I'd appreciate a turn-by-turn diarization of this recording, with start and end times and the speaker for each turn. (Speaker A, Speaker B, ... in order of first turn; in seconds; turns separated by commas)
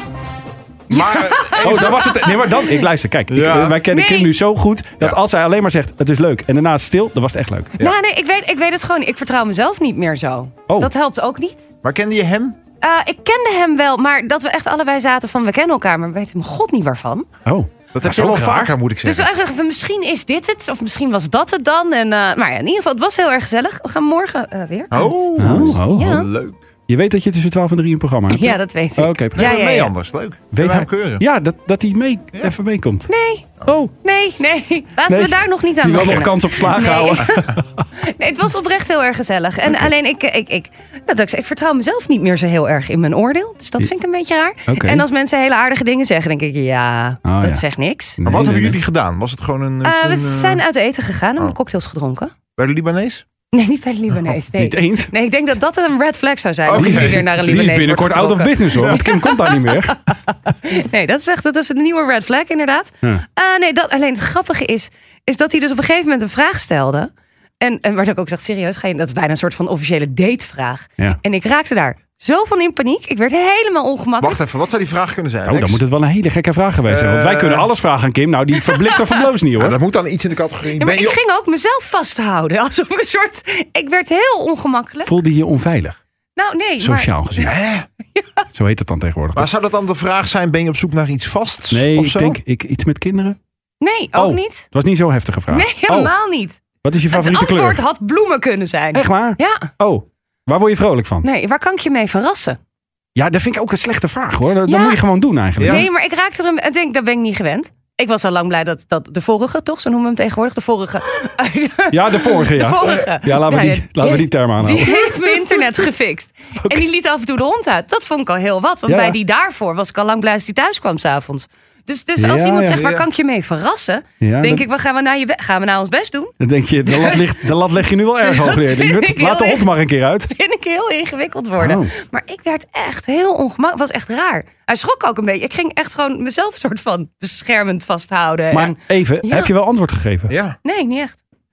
Speaker A: 0.9-1.9, Speaker B: 0.9-2.8, Speaker C: 1.6-7.7, Speaker A: 3.3-3.8, Speaker B: 3.9-4.3, Speaker B: 7.8-11.6, Speaker A: 11.8-12.6, Speaker B: 12.8-17.3, Speaker C: 17.4-18.7, Speaker A: 17.9-19.3, Speaker B: 19.0-26.3, Speaker A: 24.9-26.6, Speaker C: 25.4-26.2, Speaker C: 26.9-29.5, Speaker B: 28.3-29.9, Speaker A: 29.3-31.2, Speaker C: 30.5-33.1, Speaker B: 33.1-33.5, Speaker C: 33.6-33.9, Speaker B: 34.0-48.2, Speaker C: 35.1-37.8, Speaker C: 44.6-45.0, Speaker C: 47.2-47.6, Speaker C: 48.2-48.8, Speaker A: 48.2-50.6, Speaker B: 49.8-52.3, Speaker A: 52.5-53.2, Speaker B: 53.5-74.4, Speaker C: 54.4-55.1, Speaker A: 56.6-57.8, Speaker C: 56.7-60.0, Speaker A: 74.2-75.8, Speaker C: 75.4-79.8, Speaker A: 76.9-77.7, Speaker B: 78.7-79.0, Speaker A: 79.5-81.2, Speaker B: 80.8-85.1, Speaker C: 85.0-86.0, Speaker B: 86.3-87.1, Speaker C: 86.8-87.6, Speaker A: 87.4-87.9, Speaker B: 88.1-88.4, Speaker C: 88.5-89.5, Speaker A: 89.3-92.4, Speaker C: 91.7-93.4, Speaker B: 93.8-94.7, Speaker C: 94.1-96.1, Speaker B: 95.5-99.7, Speaker C: 96.8-97.8, Speaker C: 98.9-101.3, Speaker B: 101.2-102.6, Speaker C: 103.1-105.8, Speaker B: 104.6-105.0, Speaker A: 105.6-105.8, Speaker B: 105.6-126.3, Speaker C: 111.9-115.6, Speaker C: 116.6-116.8, Speaker C: 118.9-119.2, Speaker C: 122.2-122.9, Speaker A: 122.7-123.0, Speaker C: 124.2-124.6, Speaker C: 126.4-130.3, Speaker B: 126.9-127.4, Speaker B: 128.2-129.7, Speaker B: 130.3-139.5, Speaker C: 131.6-131.9, Speaker C: 138.5-140.3, Speaker A: 140.3-140.6, Speaker B: 140.6-141.2